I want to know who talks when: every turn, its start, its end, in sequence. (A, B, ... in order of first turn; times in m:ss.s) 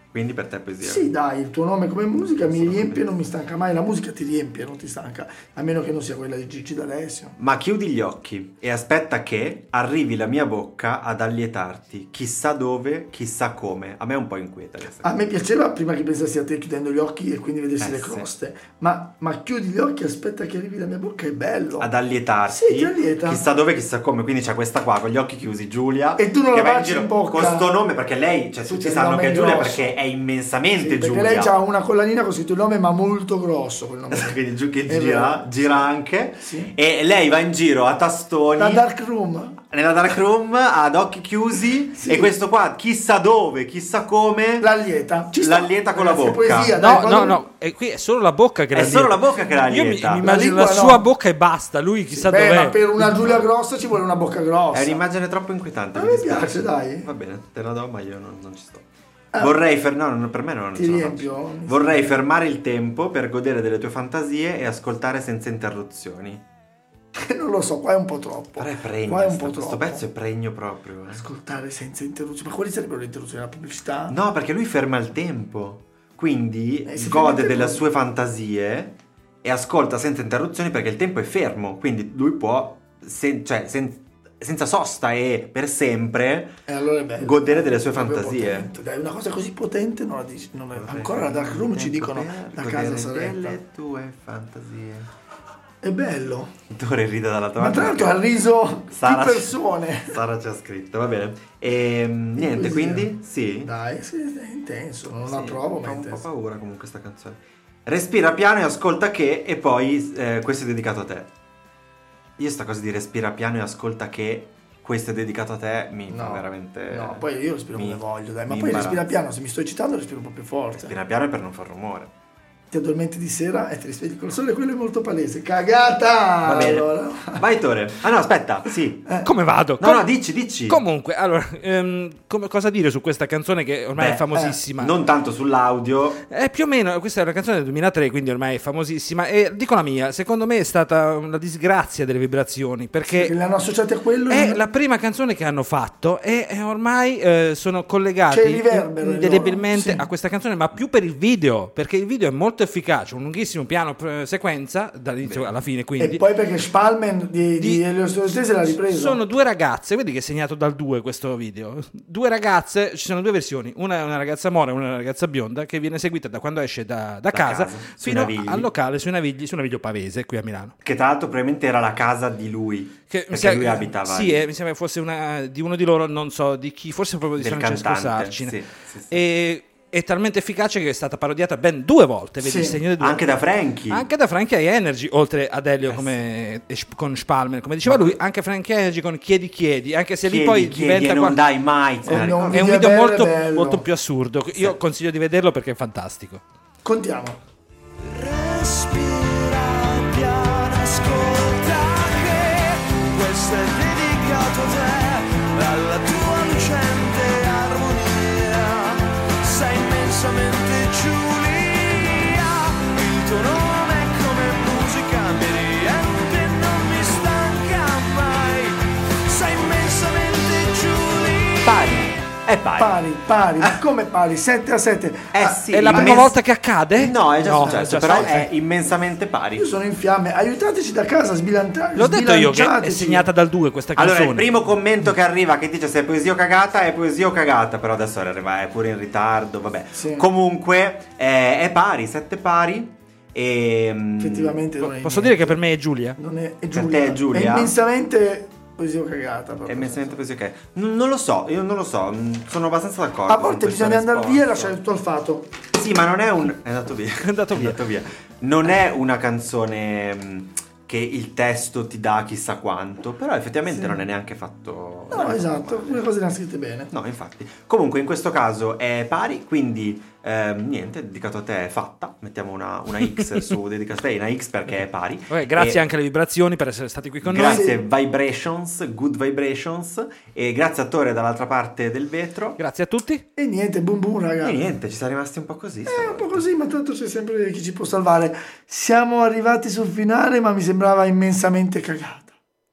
0:00.1-0:01.1 A
0:00.8-0:07.4 B
0:02.3-0:03.1 A
0:07.4-0:15.1 A
0:15.0-0:21.9 B
0:17.8-0:18.3 A
0:21.8-0:31.6 A
0:22.5-0:23.4 B
0:26.2-0:27.7 B
0:28.6-0:29.9 B
0:30.8-0:36.7 B
0:34.1-0:38.8 A
0:38.6-0:39.6 B
0:39.7-0:44.7 A
0:42.0-0:42.3 B
0:44.6-0:47.4 B
0:45.4-0:46.8 A
0:46.8-0:53.3 C
0:48.7-0:50.3 A
0:50.2-0:51.0 B
0:52.1-0:55.0 B
0:53.1-0:53.4 A
0:54.7-0:58.8 A
0:55.9-0:57.1 B
0:59.4-1:06.4 A
1:00.7-1:02.1 B
1:07.2-1:10.0 B
1:08.6-1:11.2 A
1:11.1-1:14.2 B
1:14.1-1:26.6 A
1:16.8-1:17.8 B
1:26.7-1:33.6 B
1:27.2-1:28.7 A
1:30.7-1:35.1 A
1:35.8-1:36.5 B
1:36.7-1:38.2 A
1:37.6-1:40.2 B
1:38.9-1:43.7 A
1:42.4-1:43.1 B
1:43.6-1:46.2 B
1:45.2-1:51.3 A
1:52.4-1:59.1 A
1:56.1-2:00.9 B
2:00.7-2:02.1 A
2:02.7-2:07.4 B
2:06.4-2:09.0 A
2:09.2-2:10.1 C
2:09.8-2:10.8 A
2:10.6-2:14.9 C
2:13.9-2:16.2 A
2:16.3-2:23.3 C
2:23.1-2:24.6 B
2:24.3-2:36.2 C
2:28.3-2:30.1 B
2:35.2-2:35.5 A
2:36.0-2:39.2 B
2:37.6-2:37.8 C
2:38.7-2:50.7 C
2:47.3-2:48.7 A
2:50.8-2:54.5 A
2:53.1-2:58.6 C
2:57.4-2:59.2 A
2:59.1-3:11.4 C
3:02.4-3:02.8 B
3:03.0-3:04.1 A
3:05.9-3:06.2 A
3:07.8-3:08.2 A
3:10.2-3:12.7 A
3:12.0-3:13.8 B
3:12.5-3:16.4 C
3:16.8-3:17.4 B
3:18.0-3:41.9 D
3:41.6-3:43.0 A
3:42.8-3:46.3 B
3:45.3-3:46.3 A
3:45.7-3:48.5 C
3:47.0-3:49.7 A
3:49.6-3:53.3 B
3:52.0-3:54.5 C
3:53.9-4:04.6 A
4:00.0-4:00.3 B
4:04.2-4:05.6 B
4:04.8-4:06.2 C
4:06.2-4:10.2 B
4:06.7-4:07.7 A
4:09.7-4:14.8 A
4:13.3-4:15.5 B
4:15.7-4:26.0 A
4:17.2-4:17.8 C
4:23.7-4:24.0 B
4:25.1-4:26.9 B
4:26.9-4:35.8 A
4:35.3-4:37.7 C
4:37.2-4:42.6 A
4:37.4-4:37.8 B
4:42.6-4:43.2 C
4:43.4-4:44.6 B
4:44.4-4:46.4 A
4:45.9-4:52.3 B